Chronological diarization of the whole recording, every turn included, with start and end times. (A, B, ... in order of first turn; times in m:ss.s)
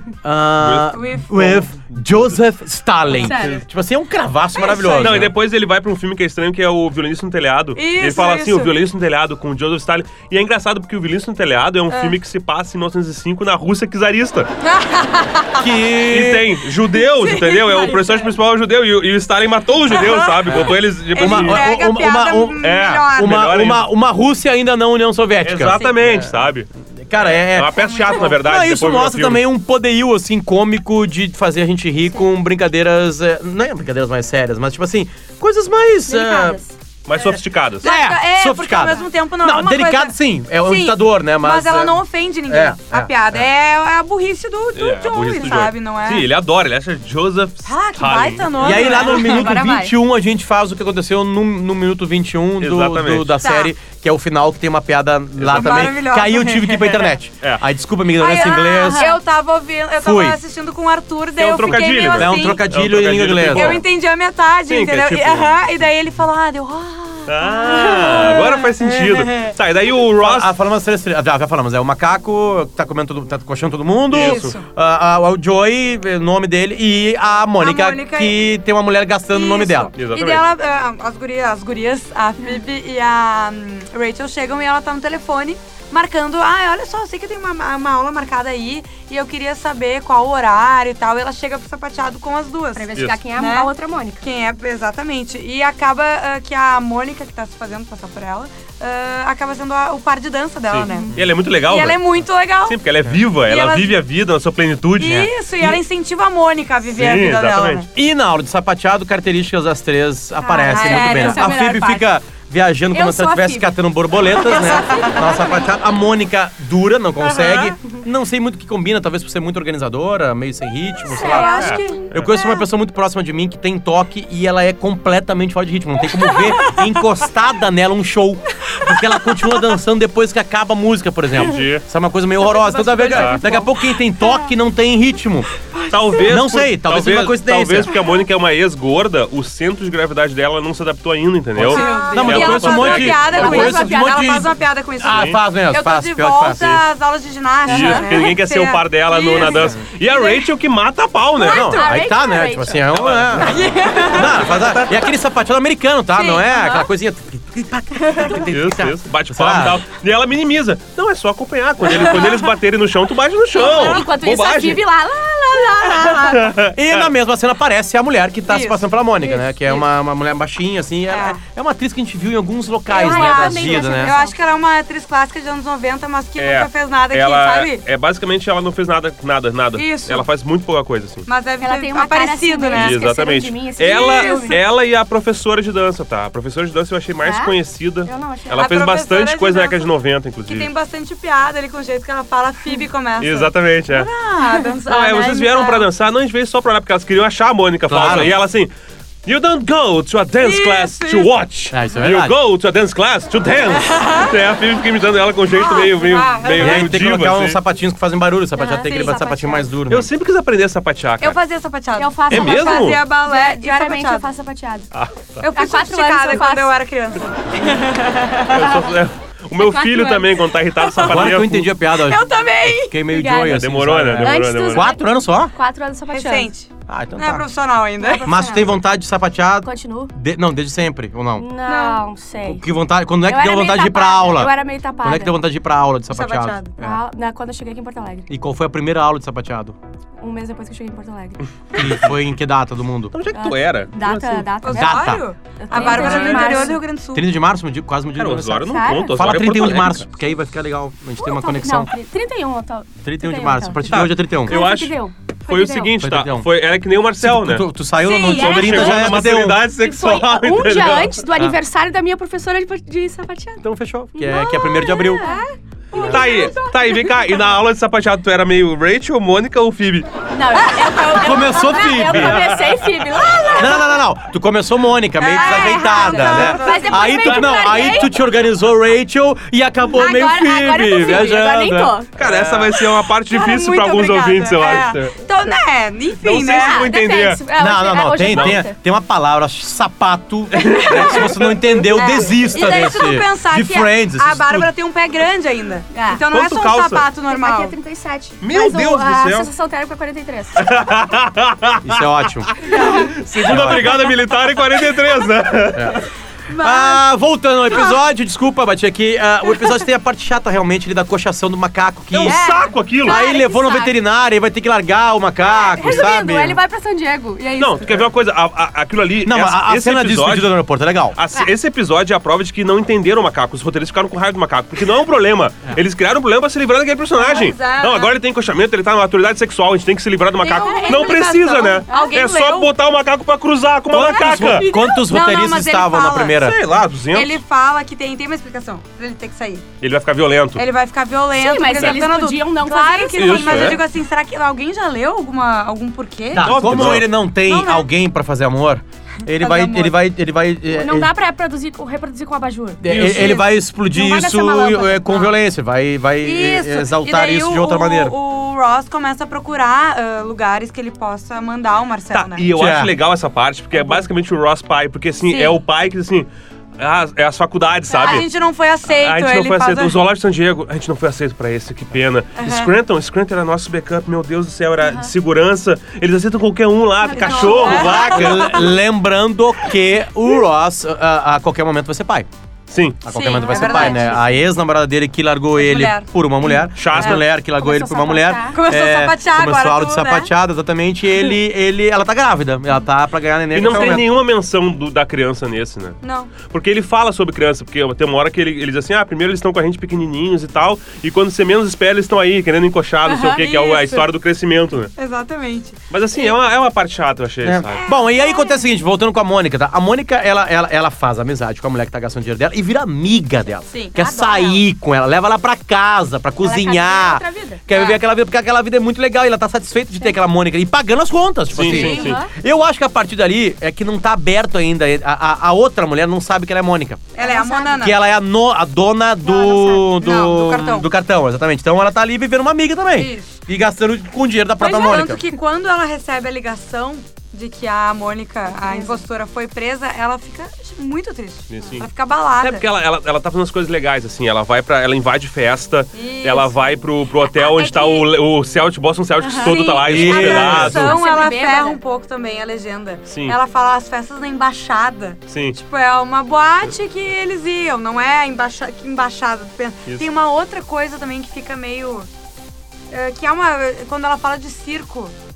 0:00.2-0:05.3 A
0:00.6-0:02.4 B
0:00.9-0:01.6 C
0:03.1-0:03.6 D
0:03.2-0:03.6 B
0:04.6-0:05.3 C
0:05.0-0:14.5 B
0:07.8-0:08.7 C
0:11.9-0:12.2 C
0:14.6-0:15.7 C
0:15.6-0:16.6 A
0:16.0-0:21.7 B
0:17.2-0:18.3 C
0:19.9-0:23.5 C
0:20.5-0:26.3 A
0:22.6-0:23.9 B
0:25.4-0:29.4 B
0:27.0-0:36.6 A
0:27.7-0:28.4 C
0:36.1-0:36.7 D
0:37.1-0:37.9 B
0:37.8-0:43.4 A
0:37.8-0:46.3 C
0:44.8-0:49.5 B
0:47.6-0:49.9 C
0:48.6-0:59.1 A
0:52.6-0:53.4 B
0:53.4-0:53.7 C
0:55.4-0:56.0 B
0:55.5-0:57.1 C
0:58.2-1:02.6 C
0:58.9-0:59.2 D
1:00.0-1:00.4 A
1:01.4-1:03.8 B
1:02.1-1:03.8 A
1:03.5-1:09.6 C
1:04.7-1:05.7 B
1:07.3-1:10.5 B
1:10.2-1:19.9 A
1:14.1-1:14.6 B
1:14.1-1:14.6 C
1:17.6-1:18.4 C
1:19.3-1:41.1 C
1:20.0-1:20.4 B
1:32.8-1:34.2 D
1:40.7-1:45.8 B
1:40.9-1:41.2 D
1:41.7-1:42.8 C
1:43.4-1:44.0 C
1:45.0-1:47.9 C
1:46.9-1:47.9 B
1:47.9-2:15.5 A
1:50.4-1:51.8 C
1:50.7-1:52.1 D
1:52.9-1:53.7 D
1:54.5-1:55.3 C
1:54.6-1:55.6 D
1:57.3-1:57.7 C
2:01.1-2:02.1 D
2:01.2-2:02.0 C
2:01.4-2:02.3 B
2:06.3-2:06.8 C
2:11.3-2:11.8 B
2:12.4-2:13.7 D
2:13.1-2:13.4 B
2:15.7-2:16.2 C
2:15.9-2:23.6 B
2:16.2-2:18.0 A
2:21.6-2:26.8 A
2:21.7-2:30.4 C
2:21.7-2:24.5 D
2:25.1-2:25.4 B
2:27.7-2:31.8 B
2:27.7-2:28.3 D
2:31.4-2:32.9 D
2:31.4-2:39.8 A
2:31.5-2:31.9 C
2:32.9-2:33.7 B
2:33.4-2:34.6 C
2:34.5-2:34.9 B
2:36.1-2:36.9 C
2:38.1-2:38.4 C
2:38.5-2:44.8 B
2:42.0-2:42.5 C
2:43.5-2:46.5 D
2:43.6-2:44.1 C
2:45.6-2:46.4 C
2:46.2-2:47.1 B
2:46.6-2:54.1 A
2:48.5-2:48.8 C
2:49.2-2:49.9 D
2:51.1-2:51.4 C
2:52.9-2:54.4 D
2:52.9-2:57.8 C
2:56.4-3:01.3 B
2:59.8-3:00.3 C
3:01.3-3:03.0 C
3:01.6-3:04.6 D
3:02.7-3:10.7 B
3:03.8-3:04.6 C
3:07.2-3:08.7 D
3:08.5-3:09.9 C
3:10.5-3:15.9 C
3:13.2-3:14.1 B
3:14.9-3:18.7 B
3:17.9-3:18.4 A
3:19.2-3:27.6 B
3:20.4-3:21.3 C
3:21.7-3:22.4 A
3:23.8-3:24.3 C
3:25.5-3:27.0 C
3:26.5-3:30.1 A
3:28.6-3:29.7 D
3:28.8-3:29.2 C
3:29.9-3:31.4 B
3:31.2-3:34.3 C
3:32.0-3:34.9 D
3:32.3-3:33.0 B
3:34.9-3:35.5 B
3:35.4-3:38.7 C
3:35.5-3:36.7 D
3:38.5-3:41.7 B
3:39.6-3:40.4 D
3:41.0-3:45.5 A
3:42.0-3:43.0 C
3:43.1-3:43.6 D
3:43.4-3:45.0 B
3:44.2-3:46.5 D
3:46.1-3:48.4 C
3:46.9-3:47.5 A
3:48.0-3:48.7 D
3:48.2-3:51.5 A
3:49.6-3:50.1 D
3:51.4-3:52.6 D
3:51.7-3:52.0 C
3:52.4-3:57.0 A
3:53.3-3:55.3 D
3:56.1-3:56.7 C
3:56.8-3:58.3 D
3:58.3-3:59.8 A
4:00.2-4:01.9 D
4:01.7-4:03.2 A
4:03.1-4:04.5 B
4:03.3-4:06.8 D
4:04.6-4:07.3 C
4:04.7-4:11.9 A
4:05.9-4:06.5 B
4:08.2-4:10.0 B
4:08.7-4:09.5 D
4:11.2-4:15.9 D
4:13.0-4:14.6 A
4:13.9-4:17.7 B
4:16.0-4:16.5 A
4:17.2-4:19.7 A
4:18.0-4:19.0 C
4:18.3-4:19.3 D
4:18.3-4:21.2 B
4:19.8-4:27.4 D
4:23.6-4:25.3 A
4:25.2-4:25.4 C
4:25.9-4:30.1 B
4:30.3-4:34.0 D
4:30.7-4:31.4 C
4:31.1-4:32.7 A
4:32.0-4:33.5 B
4:33.5-4:42.7 A
4:35.2-4:37.3 C
4:35.3-4:38.2 D
4:37.2-4:37.8 B
4:39.9-4:42.1 D
4:42.2-4:45.2 B
4:43.3-4:46.9 C
4:46.2-4:47.4 B
4:46.4-4:48.8 D
4:47.6-4:54.7 A
4:48.3-4:48.6 B
4:50.5-4:51.9 B
4:51.9-4:57.8 C
4:55.9-4:56.2 D
4:56.3-4:57.1 B
4:57.3-5:00.7 D
4:58.4-4:59.5 B
5:00.6-5:06.1 B
5:01.8-5:02.6 A
5:02.7-5:04.0 D
5:03.4-5:04.0 A
5:05.7-5:06.0 A
5:06.5-5:06.9 C
5:06.6-5:12.4 A
5:12.1-5:13.2 B
5:12.2-5:14.0 D
5:13.0-5:16.6 A
5:15.4-5:18.1 D
5:17.6-5:20.6 B
5:19.2-5:21.2 A
5:21.1-5:34.7 B
5:27.2-5:28.1 C
5:30.4-5:32.7 C
5:30.6-5:31.3 D
5:31.9-5:32.2 D
5:33.9-5:36.6 A
5:34.0-5:35.1 D
5:34.7-5:36.5 C
5:36.4-5:37.4 B
5:37.1-5:39.6 C
5:39.8-5:40.6 B
5:40.6-5:47.9 C
5:41.3-5:43.8 D
5:41.7-5:42.0 B
5:43.1-5:43.8 B
5:46.3-5:51.1 A
5:46.4-5:47.1 B
5:49.3-5:50.0 C
5:50.7-5:55.3 D
5:52.8-5:58.2 A
5:52.9-5:53.4 B
5:56.2-6:02.5 C
6:02.1-6:06.3 B
6:02.5-6:03.0 A
6:03.8-6:04.0 C
6:05.3-6:05.6 C
6:06.8-6:08.3 B
6:07.9-6:08.2 D
6:07.9-6:10.0 C
6:08.9-6:18.7 B
6:12.4-6:12.7 C
6:14.8-6:15.1 D
6:17.0-6:18.1 D
6:17.1-6:18.7 C
6:17.6-6:22.3 A
6:22.7-6:23.0 B
6:23.0-6:34.1 A
6:23.1-6:24.2 C
6:23.2-6:24.2 D
6:25.6-6:26.1 C
6:26.8-6:27.2 B
6:27.5-6:28.6 D
6:28.5-6:30.3 C
6:33.5-6:44.9 B
6:36.0-6:36.3 C
6:43.1-6:44.1 C
6:45.0-6:46.3 C
6:45.9-6:47.8 B
6:47.4-7:07.1 A
6:47.8-6:48.6 C
6:53.7-6:54.6 C
6:56.4-6:57.8 D
7:01.5-7:02.2 B
7:01.6-7:02.3 D
7:07.2-7:08.0 C
7:07.2-7:07.8 D
7:07.8-7:15.2 A
7:09.3-7:09.8 D
7:09.8-7:10.9 C
7:12.9-7:13.3 C
7:14.6-7:22.6 C
7:18.7-7:19.0 D
7:21.5-7:21.9 B
7:22.4-7:31.0 B
7:25.9-7:26.6 C
7:27.2-7:28.1 C
7:29.2-7:42.1 C
7:29.8-7:31.0 A
7:30.7-7:31.8 D
7:33.1-7:33.4 B
7:35.3-7:35.6 B
7:42.9-7:45.2 C